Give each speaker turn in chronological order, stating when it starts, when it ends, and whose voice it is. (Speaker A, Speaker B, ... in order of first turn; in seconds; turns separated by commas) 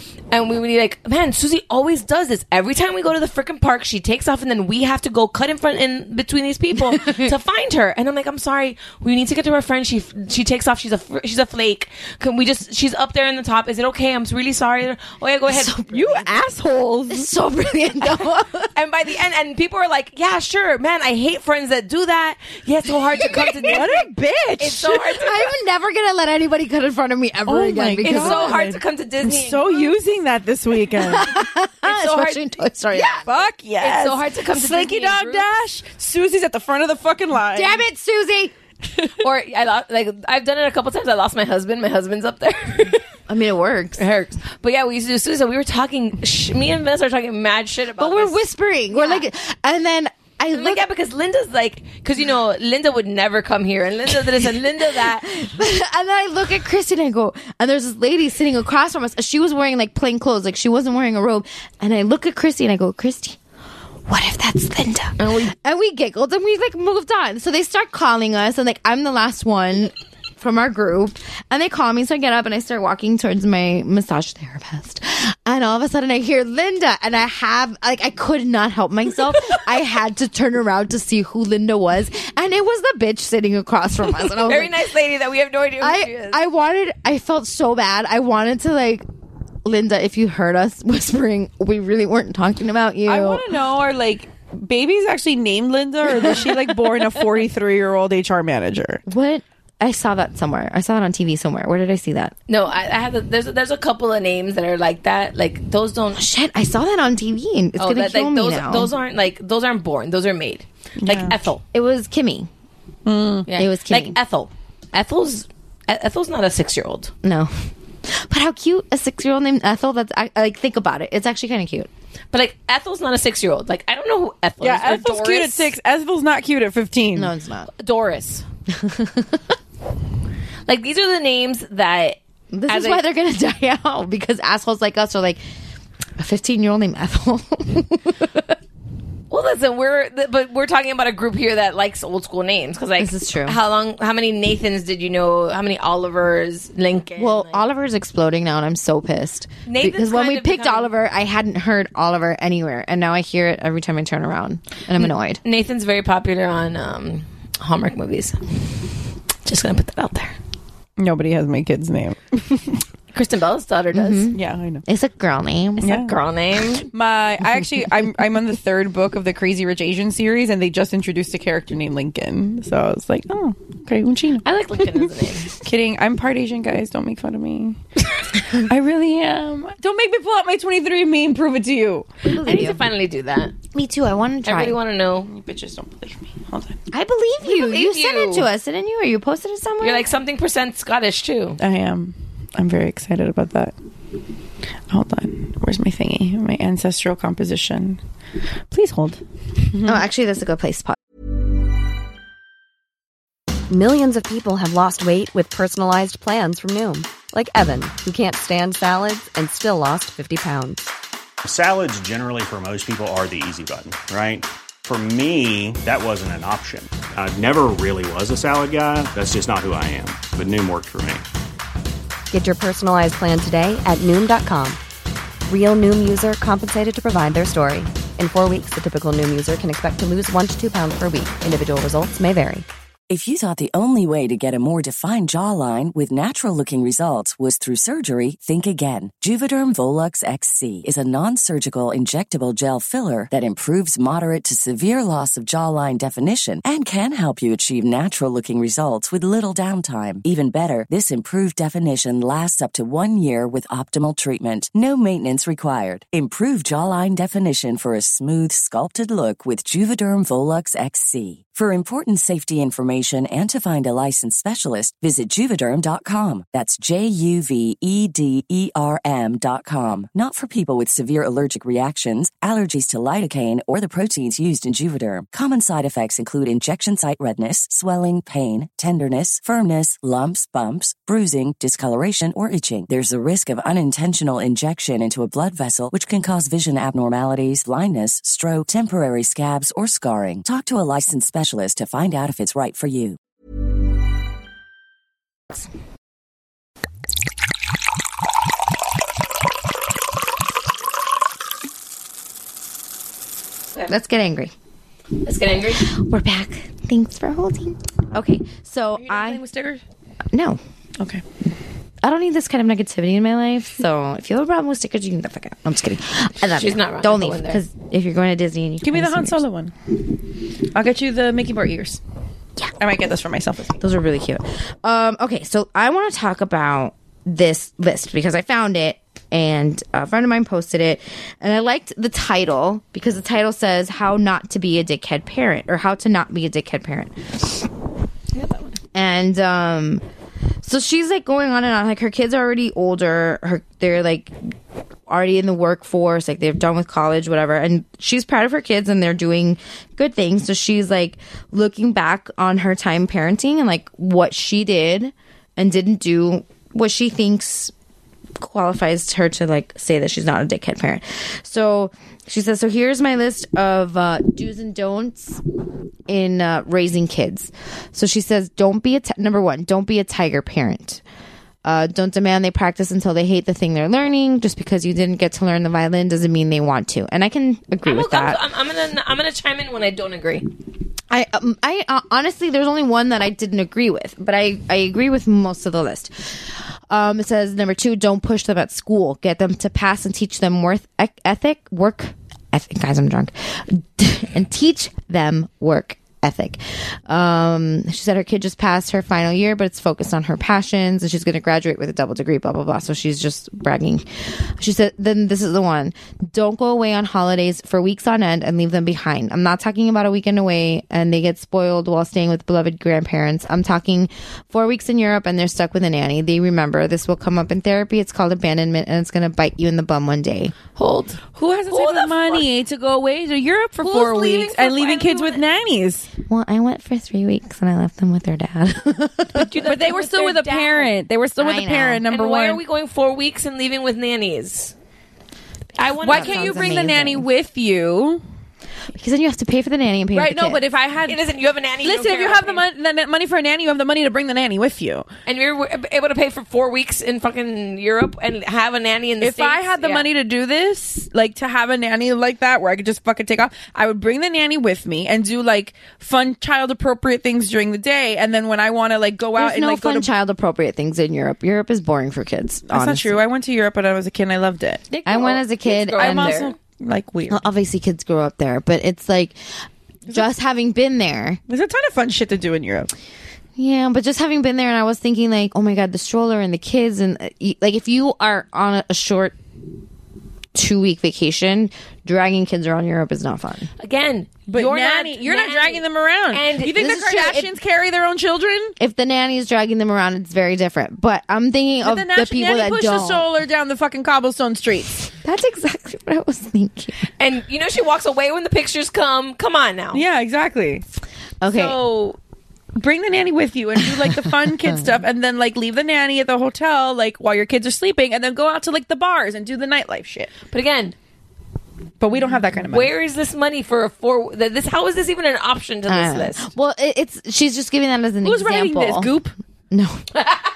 Speaker A: 0.3-15.8, Speaker B: 6.9-7.3, Speaker B: 15.5-16.3, Speaker C: 15.9-17.3, Speaker B: 17.1-18.7, Speaker A: 18.8-24.1, Speaker C: 23.3-25.1, Speaker B: 23.4-23.9, Speaker A: 24.6-25.5, Speaker B: 25.1-28.6, Speaker C: 27.5-31.3, Speaker A: 28.0-30.0, Speaker B: 30.9-33.3, Speaker A: 31.8-33.3, Speaker C: 33.2-37.8, Speaker A: 33.8-35.5, Speaker B: 37.5-38.5, Speaker A: 39.2-43.1, Speaker B: 43.3-44.0, Speaker A: 44.0-48.4, Speaker B: 48.0-50.9, Speaker A: 48.9-49.2, Speaker A: 50.5-55.4, Speaker B: 55.0-63.4, Speaker B: 64.1-84.8, Speaker A: 65.2-65.5, Speaker A: 84.2-86.4, Speaker B: 85.8-89.0, Speaker B: 89.7-93.5, Speaker C: 93.1-99.0, Speaker B: 99.1-102.3, Speaker A: 102.5-106.2, Speaker B: 106.2-108.9, Speaker A: 107.8-111.6, Speaker C: 111.0-111.3, Speaker B: 111.7-112.5, Speaker C: 113.1-113.5, Speaker A: 113.5-117.1, Speaker B: 113.5-114.2, Speaker B: 117.2-117.5, Speaker B: 118.1-121.9, Speaker A: 122.3-125.7, Speaker C: 124.6-127.3, Speaker B: 127.2-127.7, Speaker A: 127.8-128.4, Speaker B: 128.7-129.4, Speaker A: 130.7-133.0, Speaker B: 132.5-135.4, Speaker B: 136.2-138.6, Speaker A: 139.3-147.6, Speaker B: 143.0-143.6, Speaker B: 147.2-155.4, Speaker A: 149.7-150.9, Speaker A: 155.4-158.8, Speaker A: 159.4-160.4, Speaker C: 161.0-162.8, Speaker A: 163.1-164.3, Speaker B: 163.9-166.0, Speaker C: 164.3-164.8, Speaker C: 165.8-166.1, Speaker A: 165.8-166.9, Speaker C: 166.9-174.4, Speaker A: 174.4-175.5, Speaker C: 175.6-177.8, Speaker C: 178.5-182.1, Speaker B: 182.2-182.8, Speaker A: 182.4-183.6, Speaker B: 183.7-184.8, Speaker A: 184.4-185.3, Speaker C: 185.3-186.8, Speaker B: 186.9-190.1, Speaker A: 187.4-188.5, Speaker A: 189.8-191.6, Speaker C: 191.6-193.7, Speaker C: 194.9-198.0, Speaker C: 198.7-200.0, Speaker B: 199.8-201.0, Speaker D: 203.7-210.9, Speaker E: 211.4-221.2, Speaker D: 222.3-224.8, Speaker D: 225.5-232.7, Speaker F: 233.1-293.2, Speaker B: 303.9-304.5, Speaker A: 305.2-305.9, Speaker B: 305.8-309.4, Speaker C: 309.0-309.8, Speaker B: 310.3-310.6, Speaker B: 312.0-319.4, Speaker A: 316.5-317.6, Speaker C: 318.8-319.7, Speaker C: 320.7-322.0, Speaker C: 322.8-323.8, Speaker B: 323.8-337.7, Speaker A: 338.3-338.8, Speaker B: 338.9-340.0, Speaker B: 340.6-344.4, Speaker B: 345.1-357.7, Speaker B: 358.4-365.4, Speaker B: 366.1-371.0, Speaker B: 371.6-378.4, Speaker A: 377.8-380.5, Speaker B: 381.1-420.6, Speaker A: 420.8-422.5, Speaker C: 421.3-426.1, Speaker A: 423.8-425.4, Speaker B: 426.3-429.6, Speaker A: 429.4-430.9, Speaker C: 429.6-432.6, Speaker B: 431.4-432.0, Speaker A: 432.1-434.7, Speaker A: 435.8-436.9, Speaker B: 435.9-437.3, Speaker C: 436.0-438.2, Speaker B: 438.9-440.6, Speaker C: 440.1-441.2, Speaker A: 441.1-442.7, Speaker C: 441.8-445.1, Speaker A: 445.3-450.1, Speaker C: 449.2-460.1, Speaker B: 459.4-463.2, Speaker C: 462.7-465.3, Speaker A: 465.0-466.6, Speaker B: 465.0-466.4, Speaker C: 466.0-467.4, Speaker B: 467.3-469.4, Speaker B: 470.1-471.4, Speaker C: 471.5-472.9, Speaker B: 473.6-479.4, Speaker B: 480.5-483.7, Speaker A: 483.8-487.0, Speaker C: 484.5-488.7, Speaker B: 486.7-487.5, Speaker B: 488.8-493.3, Speaker C: 491.8-495.0, Speaker B: 495.2-497.0, Speaker A: 497.2-500.0, Speaker C: 499.9-500.8, Speaker B: 501.4-501.8, Speaker C: 501.5-502.2, Speaker C: 502.8-510.3, Speaker A: 510.5-510.9, Speaker C: 512.0-512.9, Speaker A: 512.6-516.5, Speaker B: 515.9-519.1, Speaker C: 518.2-519.3, Speaker B: 519.7-520.2